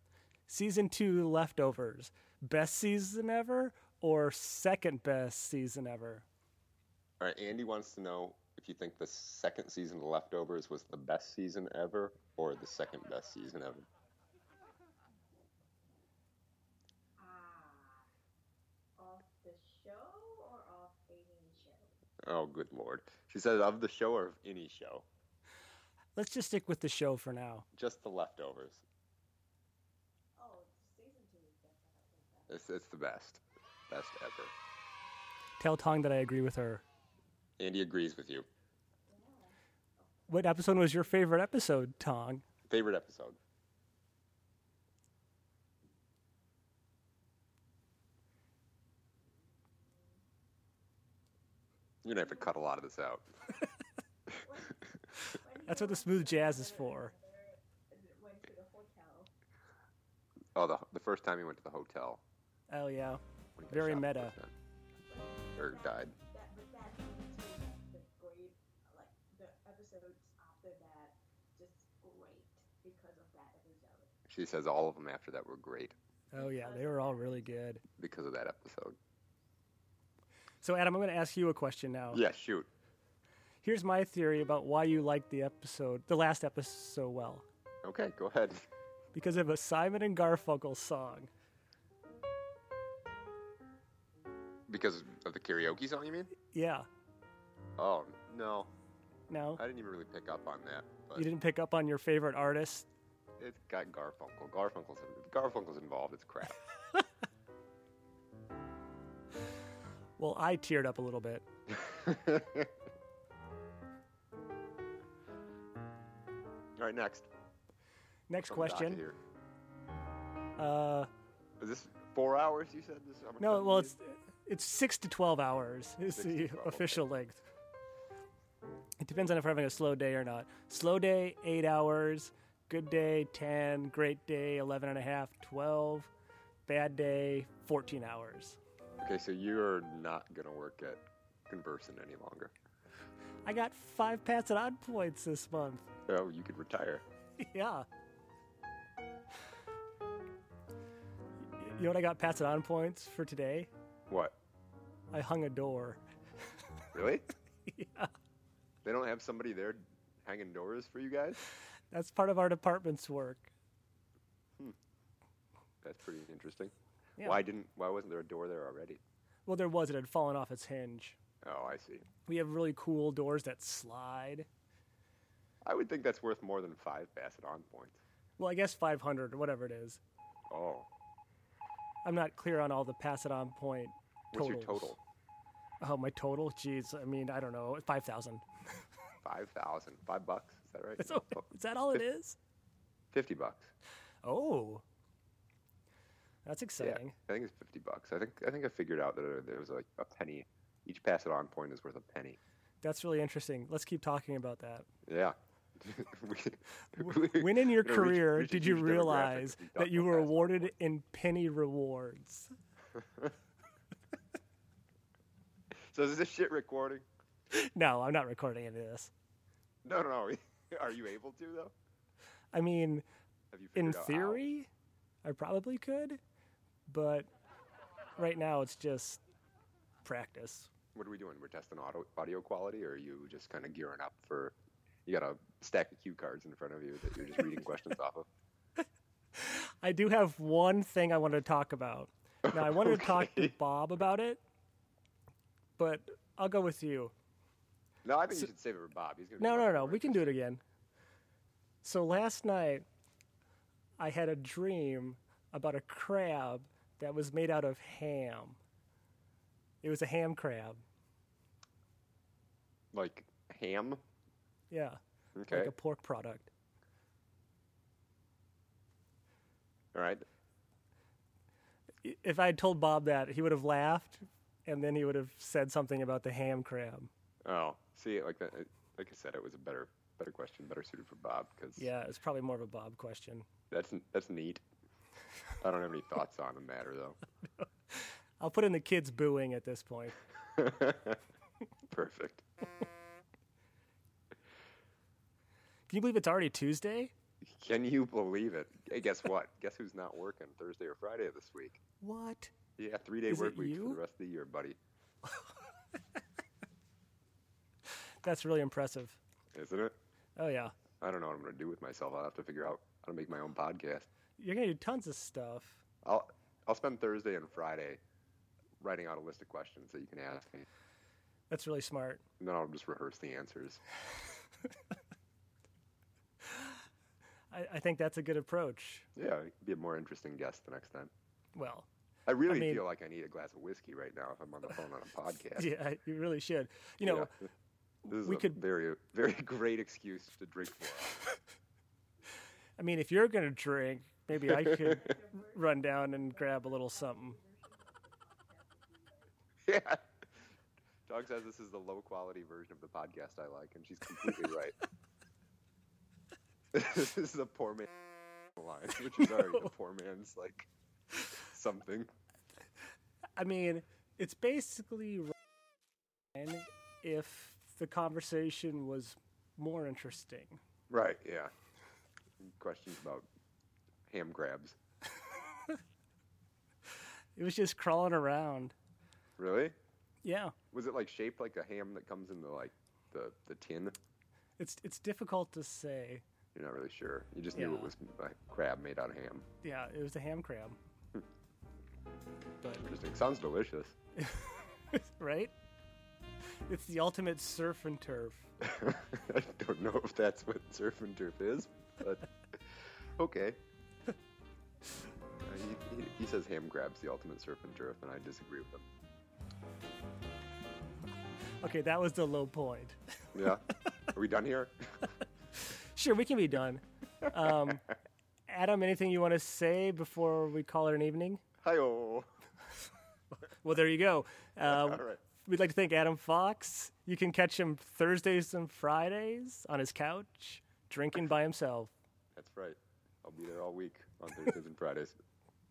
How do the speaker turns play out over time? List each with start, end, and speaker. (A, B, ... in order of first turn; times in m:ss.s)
0:00.5-0:06.2 A
0:07.2-0:13.8 B
0:17.2-0:18.0 C
0:19.0-0:21.9 C
0:22.2-0:25.0 B
0:26.2-0:27.6 A
0:27.7-0:28.8 B
0:30.4-0:32.6 C
0:32.5-0:34.5 B
0:35.6-0:36.8 A
0:37.6-0:38.4 B
0:39.1-0:40.9 C
0:40.3-0:42.4 A
0:42.7-0:43.4 B
0:52.0-0:53.3 B
0:54.4-0:59.3 C
0:55.7-0:57.1 A
1:00.5-1:02.2 B
1:02.7-1:04.4 A
1:03.6-1:04.5 B
1:05.1-1:14.1 C
1:05.6-1:06.2 B
1:14.3-1:16.0 B
1:16.3-1:17.8 A
1:16.3-1:17.6 C
1:18.0-1:19.0 B
1:20.6-1:22.2 A
1:22.1-1:22.7 B
1:23.6-1:27.4 A
1:27.8-1:28.6 B
1:29.1-1:31.3 A
1:34.7-1:36.3 B
1:36.4-1:36.9 A
1:37.8-1:38.7 B
1:39.3-1:39.6 A
1:39.6-1:41.3 B
1:41.1-1:42.9 A
1:43.4-1:46.6 B
1:50.2-1:51.4 A
1:51.7-1:52.7 B
1:56.8-1:57.3 B
1:58.3-1:59.0 A
1:58.4-1:59.2 B
2:00.6-2:01.1 A
2:01.6-2:03.9 B
2:03.4-2:07.4 A
2:06.1-2:07.0 B
2:09.0-2:16.1 A
2:16.6-2:18.6 A
2:19.0-2:22.5 B
2:23.4-2:25.9 A
2:26.1-2:27.0 B
2:27.4-2:27.8 A
2:31.6-2:33.7 A
2:34.1-2:34.3 B
2:35.1-2:36.0 A
2:36.9-2:37.3 B
2:37.7-2:38.1 A
2:38.8-2:41.4 B
2:41.9-2:43.5 A
2:45.8-2:49.0 B
2:49.4-2:51.2 A
2:51.4-2:52.1 B
2:52.3-2:54.5 A
2:55.6-2:58.0 B
2:58.4-3:00.0 A
3:00.5-3:00.9 B
3:02.0-3:05.0 A
3:04.3-3:05.0 B
3:05.8-3:08.4 A
3:09.2-3:11.4 B
3:11.0-3:12.4 A
3:13.1-3:13.7 B
3:14.2-3:14.8 A
3:16.4-3:17.1 A
3:16.8-3:22.4 B
3:22.8-3:24.9 A
3:25.0-3:30.7 B
3:27.0-3:32.5 A
3:33.0-3:33.3 B
3:35.9-3:37.0 B
3:37.5-3:39.1 A
3:39.8-3:41.7 B
3:42.5-3:43.0 A
3:43.5-3:44.4 B
3:43.8-3:44.7 A
3:45.2-3:46.2 A
3:46.9-3:47.3 A
3:48.2-3:49.2 A
3:50.0-3:50.7 A
3:50.9-3:54.5 B
3:55.0-3:58.3 B
3:59.4-4:04.4 A
4:02.5-4:03.5 B
4:05.8-4:07.1 A
4:08.0-4:10.3 B
4:09.4-4:10.6 A
4:11.8-4:12.9 A
4:14.0-4:18.6 A
4:19.8-4:20.8 A
4:22.9-4:24.0 B
4:24.7-4:26.5 A
4:25.4-4:25.7 B
4:29.9-4:30.2 B
4:32.0-4:37.1 A
4:37.4-4:41.9 B
4:41.8-4:43.5 A
4:43.7-4:44.6 B
4:45.6-4:47.2 B
4:47.9-4:50.1 A
4:50.5-4:51.2 B
4:51.9-4:52.4 B
4:55.9-4:57.1 A
4:57.4-5:01.8 B
5:02.0-5:02.5 A
5:02.8-5:04.8 B
5:03.3-5:04.0 A
5:08.2-5:09.2 A
5:09.5-5:09.9 B
5:10.4-5:10.7 A
5:11.0-5:14.1 B
5:14.4-5:15.8 A
5:16.0-5:18.0 B
5:18.8-5:20.6 B
5:21.5-5:22.2 A
5:22.4-5:23.8 B
5:26.5-5:26.7 A
5:27.5-5:29.0 A
5:29.2-5:31.1 B
5:31.5-5:31.9 A
5:32.3-5:35.7 B
5:32.5-5:32.8 A
5:35.6-5:37.3 A
5:37.0-5:37.3 B
5:38.1-5:41.2 B
5:38.1-5:38.6 A
5:42.8-5:47.4 A
5:44.4-5:45.0 B
5:44.8-5:49.3 C
5:49.6-5:50.0 B
5:51.1-5:54.8 B
5:56.7-5:58.0 B
5:58.6-6:00.7 B
6:01.3-6:02.1 B
6:03.4-6:05.3 A
6:06.4-6:10.6 A
6:10.9-6:11.5 B
6:12.4-6:13.3 B
6:14.1-6:14.8 B
6:17.4-6:18.7 A
6:19.4-6:19.7 B
6:20.2-6:20.5 A
6:20.7-6:24.0 B
6:24.6-6:26.2 A
6:26.5-6:29.4 B
6:27.5-6:27.9 A
6:29.6-6:30.8 A
6:32.8-6:34.0 B
6:34.2-6:35.5 A
6:36.7-6:38.5 A
6:38.6-6:43.6 B
6:45.4-6:48.8 B
6:51.6-6:53.0 A
6:53.3-6:55.0 B
6:55.6-6:57.9 A
6:58.5-7:01.4 A
7:01.6-7:02.3 B
7:03.6-7:11.9 A
7:04.6-7:05.2 B
7:12.3-7:15.2 B